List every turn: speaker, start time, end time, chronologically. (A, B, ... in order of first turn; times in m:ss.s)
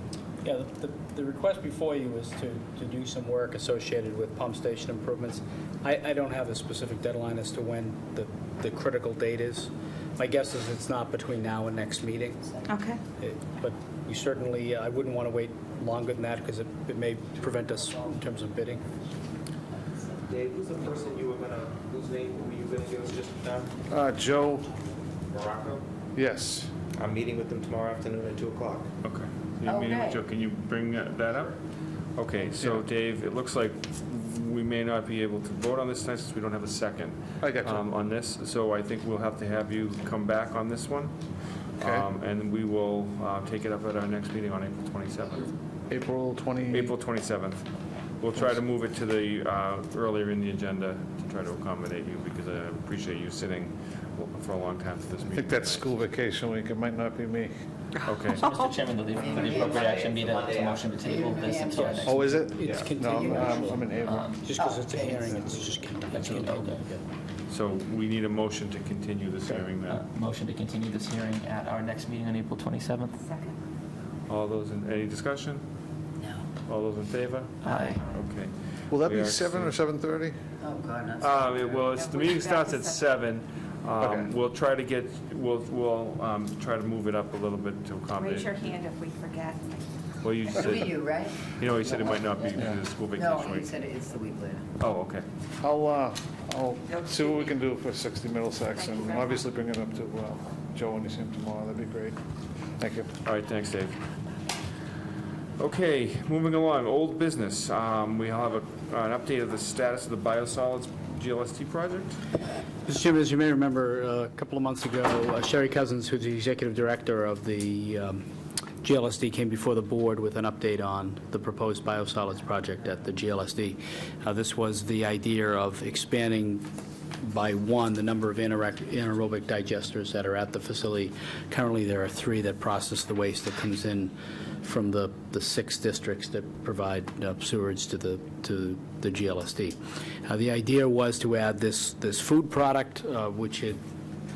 0:00.4-0:12.6 A
0:12.7-0:13.0 B
0:13.2-0:18.8 A
0:19.7-0:20.2 C
0:20.3-0:23.7 D
0:23.9-0:24.7 E
0:25.3-0:25.8 D
0:26.2-0:26.7 E
0:27.0-0:28.9 D
0:29.0-0:31.6 F
0:29.6-0:30.2 C
0:32.2-0:41.1 F
0:32.6-0:32.8 E
0:37.4-0:37.8 E
0:41.8-0:45.5 F
0:41.8-0:42.1 E
0:45.9-0:46.9 E
0:46.7-0:47.6 F
0:48.2-0:56.0 F
0:55.3-0:57.5 E
0:58.0-0:58.6 F
0:58.4-1:02.2 G
0:59.2-0:59.8 C
0:59.3-0:59.5 F
0:59.4-1:01.1 D
1:01.0-1:02.2 C
1:01.7-1:07.0 A
1:02.0-1:04.3 E
1:02.6-1:02.9 F
1:03.0-1:03.9 C
1:04.0-1:06.8 G
1:04.5-1:05.8 C
1:07.5-1:10.0 F
1:09.8-1:13.2 G
1:13.1-1:13.6 B
1:14.3-1:15.6 F
1:16.2-1:16.4 C
1:16.6-1:18.5 F
1:17.6-1:18.0 G
1:18.9-1:20.3 E
1:19.0-1:19.8 F
1:20.6-1:21.6 C
1:21.2-1:28.5 F
1:21.9-1:23.1 B
1:24.0-1:24.3 E
1:28.1-1:30.0 B
1:30.2-1:33.7 F
1:30.5-1:34.6 C
1:34.8-1:35.2 F
1:35.6-1:42.2 E
1:36.9-1:37.5 B
1:38.7-1:39.4 B
1:42.8-1:43.1 E
1:43.2-1:44.0 F
1:45.6-1:52.2 F
1:52.9-1:58.2 A
1:58.8-2:06.6 A
2:07.2-2:23.8 A